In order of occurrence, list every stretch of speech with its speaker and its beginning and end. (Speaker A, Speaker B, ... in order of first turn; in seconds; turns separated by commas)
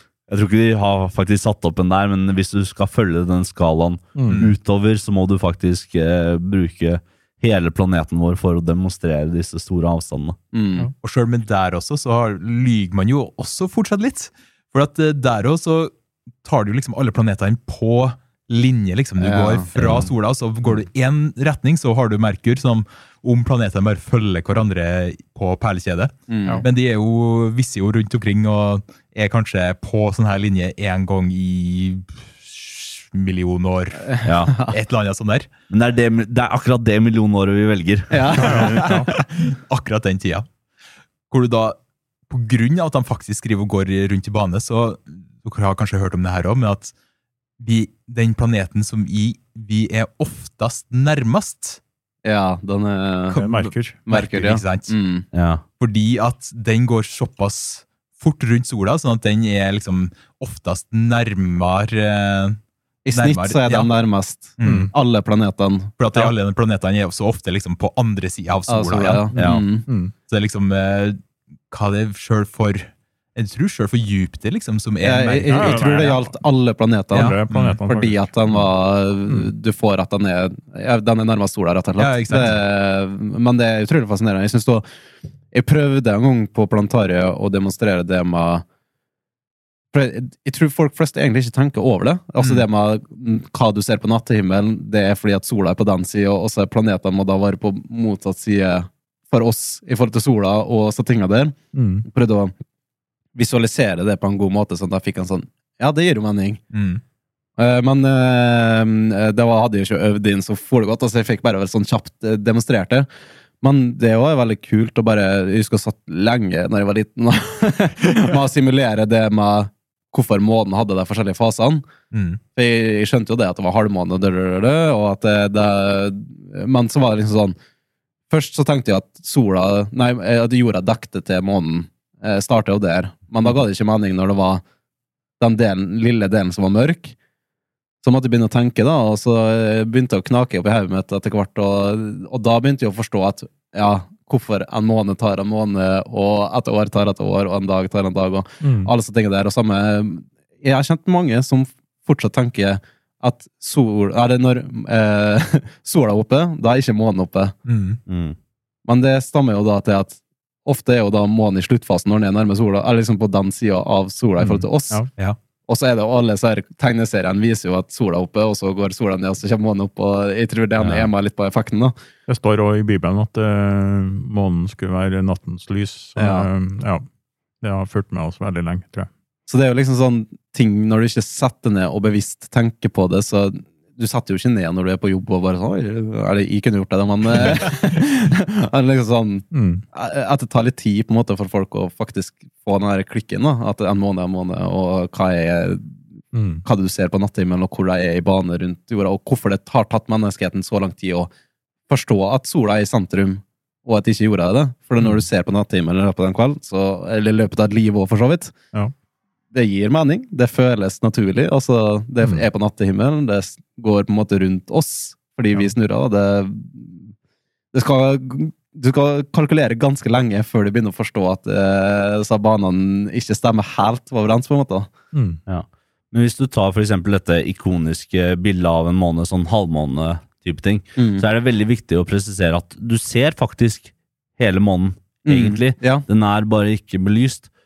Speaker A: 0.3-10.4, Speaker B: 4.1-4.4, Speaker C: 4.3-4.5, Speaker D: 10.5-10.9, Speaker C: 11.0-35.5, Speaker D: 19.2-20.0, Speaker D: 26.3-26.6, Speaker D: 34.1-34.8, Speaker A: 34.2-34.6, Speaker A: 35.7-38.5, Speaker D: 38.1-39.2, Speaker B: 38.3-39.1, Speaker C: 38.7-40.5, Speaker C: 41.3-46.9, Speaker C: 47.6-51.8, Speaker D: 52.2-53.4, Speaker C: 53.3-54.9, Speaker B: 53.3-54.0, Speaker D: 54.0-55.2, Speaker A: 55.3-55.6, Speaker C: 55.8-62.6, Speaker D: 63.0-66.3, Speaker C: 63.1-63.9, Speaker C: 64.6-64.9, Speaker B: 64.6-64.9, Speaker C: 66.0-69.3, Speaker D: 68.7-69.8, Speaker B: 69.3-70.1, Speaker A: 69.3-69.7, Speaker C: 70.3-76.2, Speaker D: 75.0-84.8, Speaker B: 75.5-76.3, Speaker B: 77.1-78.2, Speaker C: 77.1-77.8, Speaker C: 82.0-82.6, Speaker D: 85.5-88.6, Speaker D: 89.9-102.5, Speaker C: 92.4-92.6, Speaker B: 101.7-102.1, Speaker D: 103.3-106.6, Speaker C: 106.7-107.0, Speaker D: 107.6-113.0, Speaker D: 113.6-121.9, Speaker C: 122.1-122.4, Speaker D: 122.5-127.5, Speaker D: 128.3-134.6, Speaker D: 135.4-137.1, Speaker D: 138.0-157.5, Speaker B: 148.6-148.9, Speaker C: 157.7-158.0, Speaker A: 158.1-158.3, Speaker D: 158.8-165.0, Speaker D: 165.7-171.9, Speaker B: 172.3-177.0, Speaker D: 176.2-176.5, Speaker B: 177.6-179.1, Speaker D: 179.5-196.0, Speaker B: 189.5-189.8, Speaker B: 196.3-196.6, Speaker D: 196.6-201.3, Speaker D: 201.9-208.5, Speaker D: 209.5-217.1, Speaker D: 217.7-224.9, Speaker B: 225.1-225.4, Speaker A: 225.5-237.5, Speaker D: 231.0-231.2, Speaker D: 235.2-236.0